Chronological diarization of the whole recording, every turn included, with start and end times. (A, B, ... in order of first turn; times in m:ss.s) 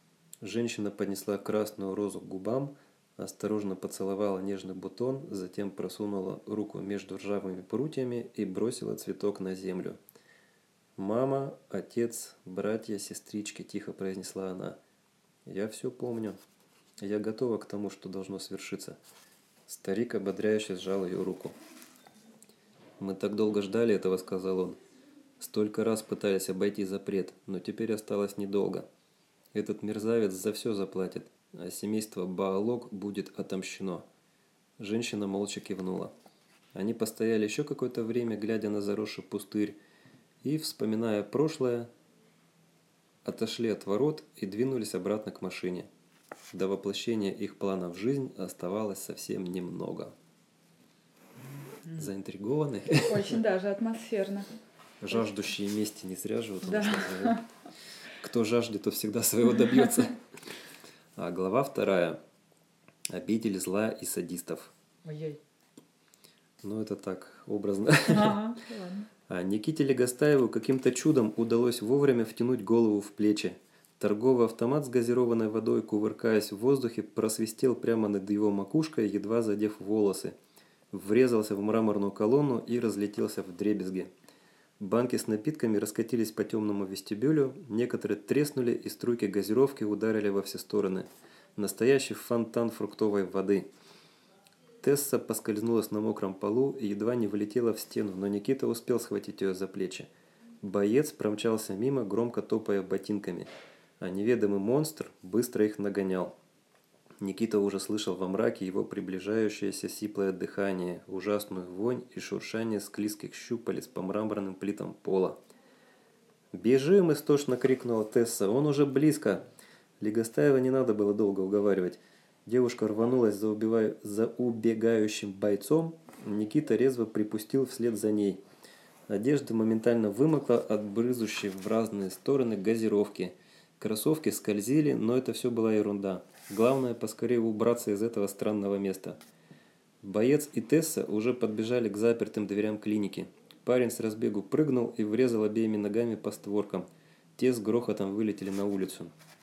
0:00.4-0:10.0 A
0:11.0-0:14.8 A
0:15.4-0:16.4 A
0:17.0-0:19.0 A
0:19.7-0:21.6 A
0:23.0-0:24.8 A
0:25.4-0:28.9 A
0:29.5-0:34.1 A
0:34.8-0:36.1 A
0:36.7-0:39.8 A
0:40.4-0:41.9 A
0:43.2-0:45.9 A
0:46.5-0:50.1 A
0:51.9-0:53.4 A
0:53.0-0:54.5 B
0:55.0-0:57.4 A
0:56.6-0:57.4 B
0:58.2-1:00.2 A
1:01.2-1:02.2 A
1:03.1-1:04.7 A
1:05.0-1:05.4 B
1:06.6-1:08.4 A
1:08.1-1:09.1 B
1:09.3-1:20.3 A
1:20.9-1:24.1 A
1:24.8-1:33.7 A
1:34.8-1:40.1 A
1:40.6-1:43.5 A
1:44.0-1:46.3 A
1:47.2-1:55.4 A
1:56.5-1:59.4 A
2:00.0-2:08.4 A
2:09.1-2:19.2 A
2:20.0-2:29.1 A